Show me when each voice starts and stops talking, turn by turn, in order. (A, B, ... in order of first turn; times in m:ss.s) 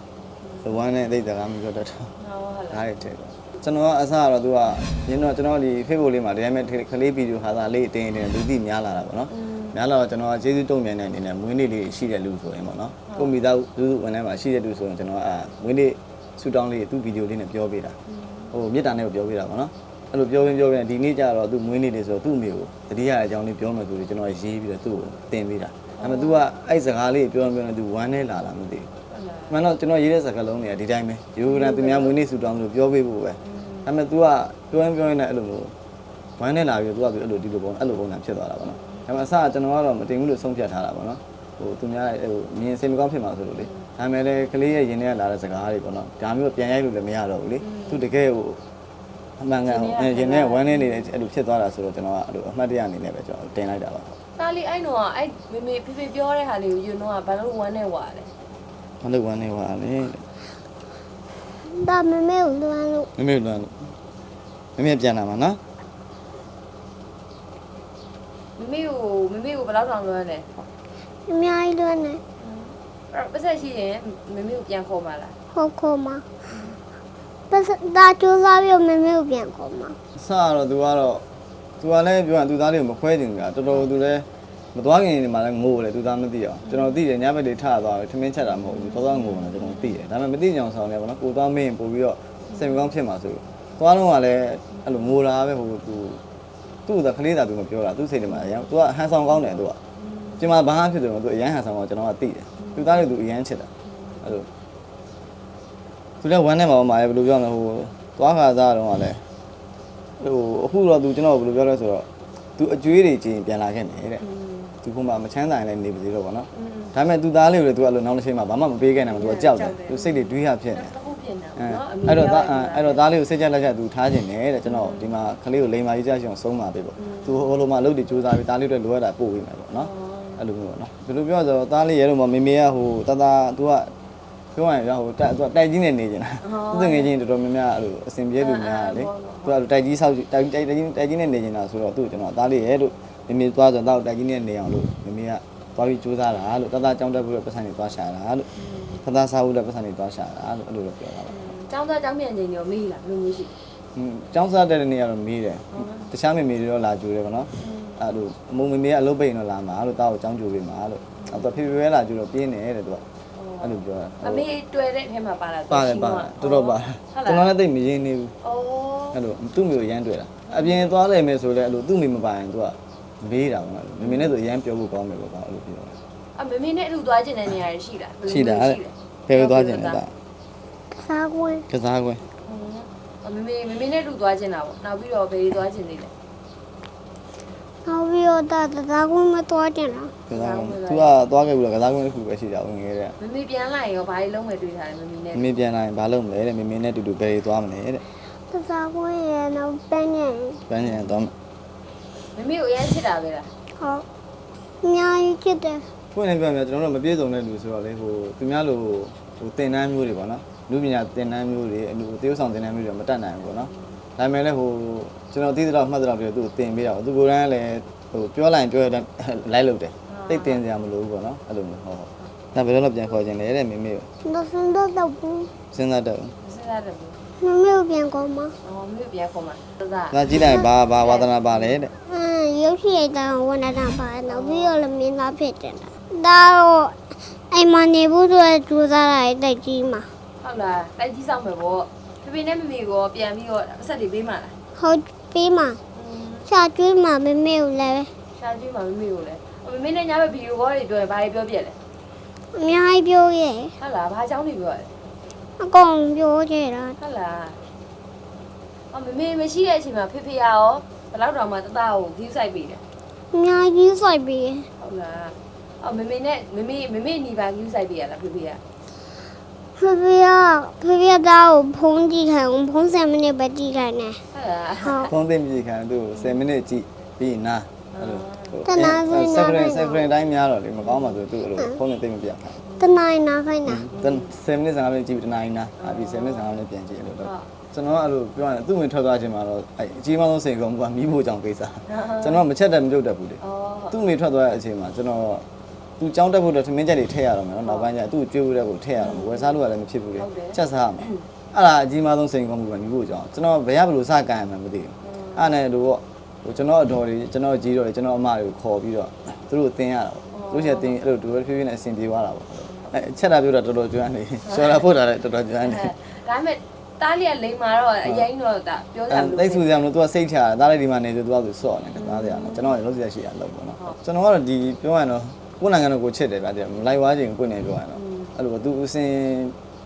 0:00.4-0:00.8 A
0:00.6-0:02.1 B
0:02.2-0:02.8 A
0:02.7-0:18.0 B
0:09.3-0:09.8 A
0:18.1-0:18.5 A
0:18.5-0:28.9 B
0:26.0-0:26.4 A
0:29.1-0:29.6 A
0:29.5-0:35.7 B
0:31.5-0:32.2 A
0:33.4-0:33.9 A
0:36.4-0:48.6 B
0:47.6-0:48.0 A
0:49.4-0:54.2 B
0:49.6-0:51.1 A
0:54.4-0:58.3 A
0:59.0-1:00.2 B
1:01.6-1:03.1 C
1:03.2-1:03.9 B
1:04.8-1:05.6 B
1:08.6-1:10.5 A
1:11.3-1:12.2 C
1:12.4-1:15.4 A
1:15.5-1:16.2 C
1:16.5-1:16.8 A
1:17.5-1:20.0 C
1:20.2-1:21.2 B
1:21.8-1:36.2 B
1:26.7-1:26.9 A
1:28.7-1:30.0 A
1:32.5-1:32.9 A
1:34.7-1:35.1 A
1:36.9-1:39.8 B
1:40.0-1:40.4 A
1:40.4-1:43.7 B
1:42.6-1:43.1 A
1:44.2-1:44.5 B
1:46.2-1:49.2 B
1:50.2-1:54.2 B
1:54.2-1:54.7 A
1:54.8-2:01.0 B
1:56.6-1:56.9 A
1:59.0-2:03.1 A
2:01.6-2:13.9 B
2:04.6-2:05.1 A
2:07.0-2:07.4 A
2:09.7-2:10.4 A
2:14.6-2:28.5 B
2:16.4-2:17.1 A
2:18.4-2:19.6 A
2:28.6-2:29.0 A
2:29.0-2:31.5 B
2:31.3-2:33.5 A
2:34.0-2:43.0 B
2:35.7-2:36.1 A
2:37.6-2:38.0 A
2:41.2-2:41.6 A
2:43.4-2:47.5 A
2:43.6-2:44.5 B
2:45.7-2:48.3 B
2:48.4-2:49.2 A
2:49.1-2:56.0 B
2:50.5-2:50.9 A
2:54.0-2:54.4 A
2:56.4-3:00.0 A
2:58.3-3:00.1 B
3:00.9-3:01.7 C
3:01.7-3:02.2 B
3:02.4-3:06.1 A
3:07.8-3:10.1 C
3:10.3-3:13.2 B
3:10.3-3:11.2 A
3:13.2-3:15.5 A
3:15.3-3:18.0 B
3:18.5-3:20.6 C
3:20.7-3:21.3 B
3:22.3-3:23.5 A
3:23.8-3:24.0 C
3:24.8-3:25.9 C
3:26.1-3:44.1 B
3:40.1-3:40.6 A
3:44.2-3:45.5 C
3:45.7-3:46.4 B
3:46.4-3:47.2 A
3:47.4-3:48.6 C
3:48.6-3:51.8 A
3:50.1-3:51.9 B
3:50.3-3:50.7 C
3:52.0-3:57.0 C
3:54.3-3:54.8 A
3:57.5-4:00.1 C
4:00.4-4:04.6 A
4:04.8-4:05.8 C
4:06.0-4:06.5 A
4:06.5-4:08.1 C
4:08.4-4:11.8 A
4:12.5-4:13.7 C
4:13.8-4:14.9 A
4:15.6-4:17.0 C
4:17.0-4:17.6 A
4:18.9-4:22.8 A
4:23.3-4:24.7 C
4:24.8-4:28.6 A
4:29.8-4:34.2 C
4:34.3-4:35.1 A
4:34.8-4:35.1 C
4:35.1-4:42.6 B
4:37.9-4:38.6 A
4:38.6-4:40.1 C
4:40.8-4:41.2 A
4:42.6-4:42.9 A
4:42.8-4:43.8 C
4:43.7-4:55.5 B
4:43.9-4:44.3 A
4:45.8-4:46.6 A
4:47.2-4:47.5 A
4:51.9-4:52.4 A
4:53.4-4:54.0 A
4:56.0-5:15.9 B
4:57.6-4:57.9 A
4:59.0-4:59.6 A
5:00.2-5:01.1 A
5:05.0-5:05.5 A
5:10.3-5:11.0 A
5:14.5-5:14.8 A
5:15.6-5:19.6 A
5:19.1-5:29.6 B
5:22.0-5:22.8 A
5:28.0-5:28.3 A